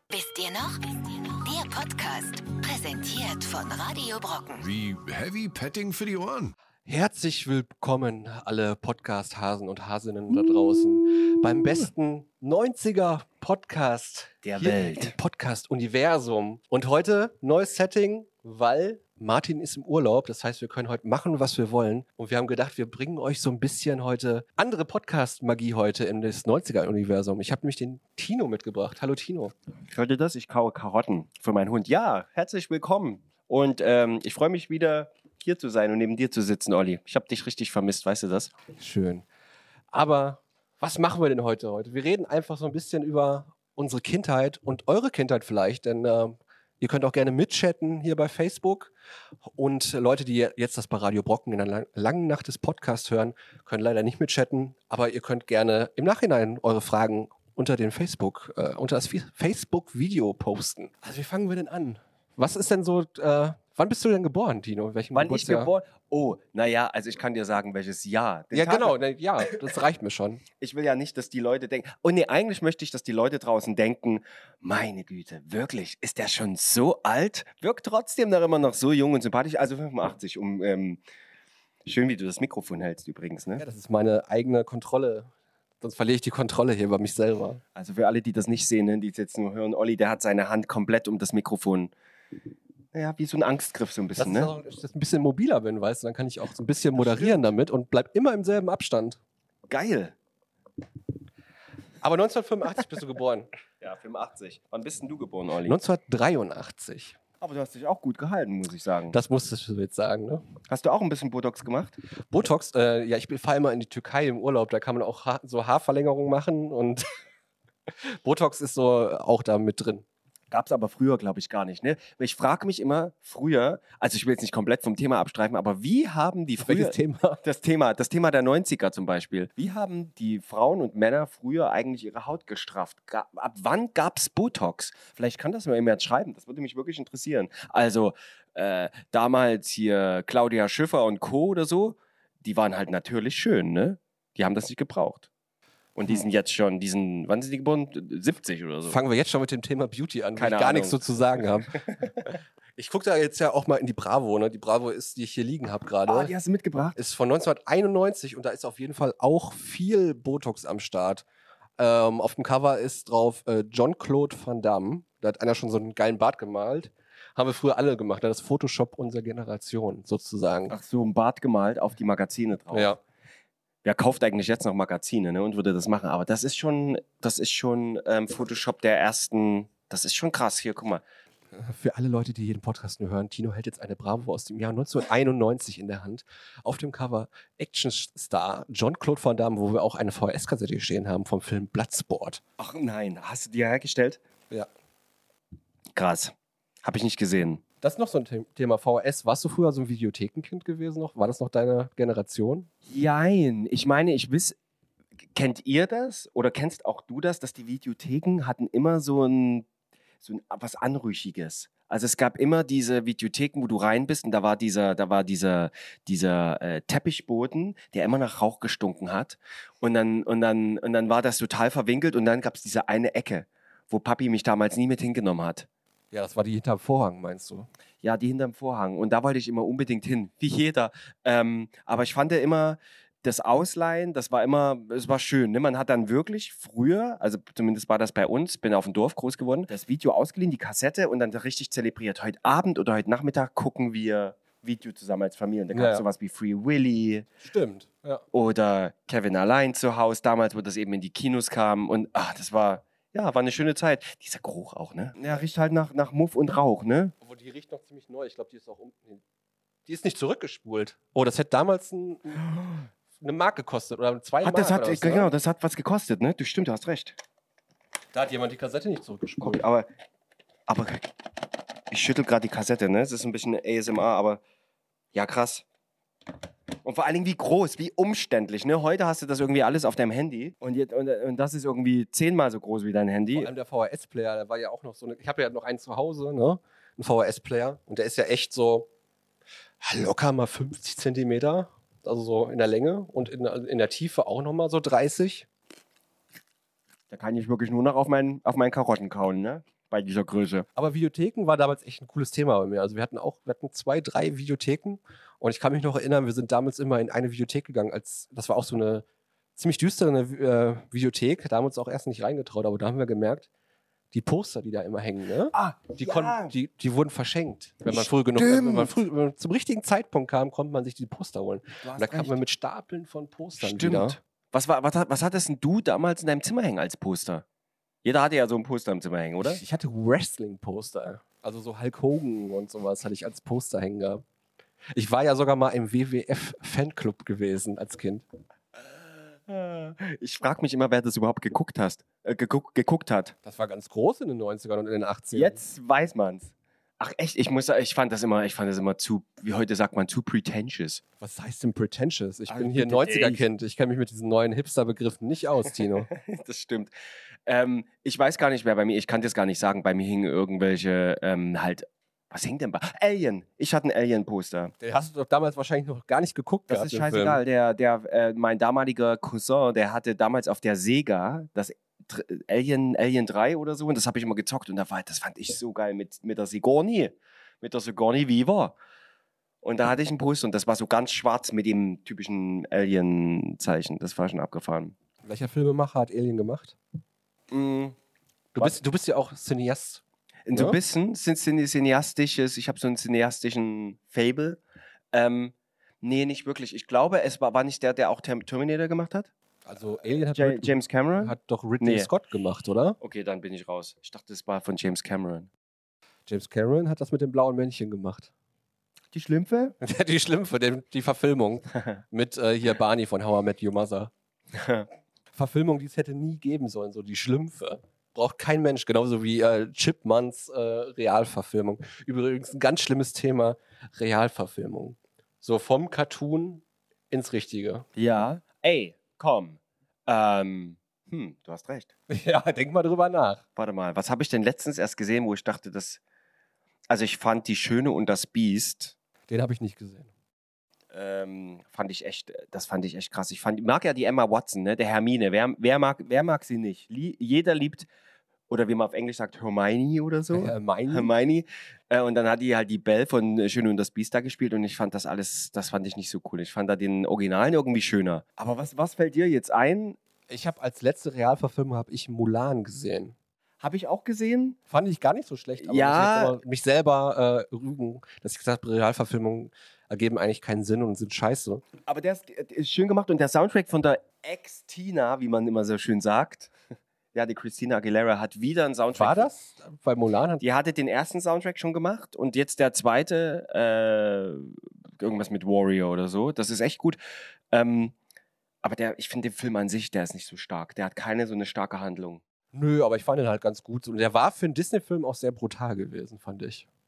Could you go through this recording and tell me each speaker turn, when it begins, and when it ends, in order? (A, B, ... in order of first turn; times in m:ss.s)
0:00.1-0:04.7 A
0:04.6-0:06.5 B
0:06.8-0:29.5 C
0:14.4-0:15.1 D
0:29.9-0:38.5 D
0:38.7-0:39.2 C
0:39.9-0:48.9 C
0:49.5-1:05.7 C
1:05.1-1:08.9 D
1:08.5-1:10.4 C
1:10.6-1:21.0 D
1:21.8-1:23.6 D
1:23.6-1:25.3 C
1:25.8-1:27.6 C
1:27.7-1:31.9 D
1:32.9-1:34.5 D
1:34.2-1:39.2 C
1:36.9-1:37.4 D
1:39.7-1:40.2 D
1:42.0-1:43.5 C
1:43.8-1:45.8 D
1:45.6-1:47.2 C
1:47.4-1:49.2 D
1:49.1-1:50.4 C
1:50.7-1:51.9 D
1:52.3-1:57.1 C
1:58.0-2:00.0 C
2:00.5-2:25.3 D
2:06.6-2:07.4 C
2:26.0-2:29.0 D
2:28.9-2:36.3 C
2:30.4-2:31.0 D
2:31.7-2:32.1 D
2:36.0-2:37.0 D
2:37.0-2:41.2 C
2:41.8-2:50.7 C
2:50.7-2:53.0 D
2:52.7-2:53.0 C
2:53.8-3:01.0 D
3:01.5-3:12.4 C
3:12.6-3:14.2 D
3:16.0-3:17.6 D
3:17.8-3:22.7 C
3:22.9-3:24.6 D
3:25.3-3:29.6 D
3:30.2-3:45.7 D
3:46.1-3:47.7 C
3:48.0-4:07.3 D
4:05.7-4:06.0 C
4:07.4-4:08.2 C
4:08.3-4:17.1 D
4:17.2-4:19.2 C
4:19.8-4:22.4 C
4:23.2-4:25.3 C
4:24.4-4:27.2 D
4:28.1-4:29.6 C
4:29.4-4:29.9 D
4:30.7-4:31.1 D
4:31.9-4:34.4 D
4:35.1-4:35.6 D
4:36.8-4:43.5 D
4:43.4-4:48.9 C
4:49.8-4:55.5 C
4:57.1-5:00.6 D
5:00.8-5:09.0 C
5:09.6-5:13.5 C
5:14.1-5:24.2 C
5:15.5-5:16.5 D
5:17.9-5:18.9 D
5:21.8-5:22.4 D
5:23.6-5:27.4 D
5:28.0-5:29.6 D
5:29.4-5:34.2 C
5:34.9-5:38.2 C
5:39.5-5:43.3 D
5:43.4-5:45.6 C
5:45.3-5:51.0 D
5:51.2-5:56.1 C
5:52.5-5:53.4 D
5:55.9-5:56.9 D
5:57.5-6:04.7 D
6:04.8-6:07.4 C
6:06.7-6:18.7 D
6:19.6-6:25.0 D
6:25.2-6:26.8 C
6:27.5-6:28.0 D
6:28.5-6:30.0 C
6:30.4-6:34.6 D
6:35.1-6:39.3 D
6:39.6-6:43.0 C
6:40.3-6:42.1 D
6:43.0-6:45.5 D
6:46.3-6:48.3 C
6:49.1-6:49.7 D
6:49.8-6:54.1 C
6:54.5-6:54.9 D
6:55.3-7:07.8 C
7:08.0-7:11.9 D
7:12.1-7:13.4 C
7:13.6-7:16.0 D
7:16.9-7:19.0 D
7:19.3-7:20.1 C
7:20.9-7:27.9 D
7:28.5-7:40.0 D
7:30.3-7:31.1 C
7:40.3-7:43.1 C
7:43.6-7:44.6 D
7:44.7-7:51.6 C
7:45.6-7:46.4 D
7:51.8-7:56.5 D
7:57.1-7:59.3 D
7:58.9-8:00.4 C
8:00.4-8:07.0 D
8:07.5-8:07.9 D
8:08.6-8:12.2 D
8:12.5-8:16.6 C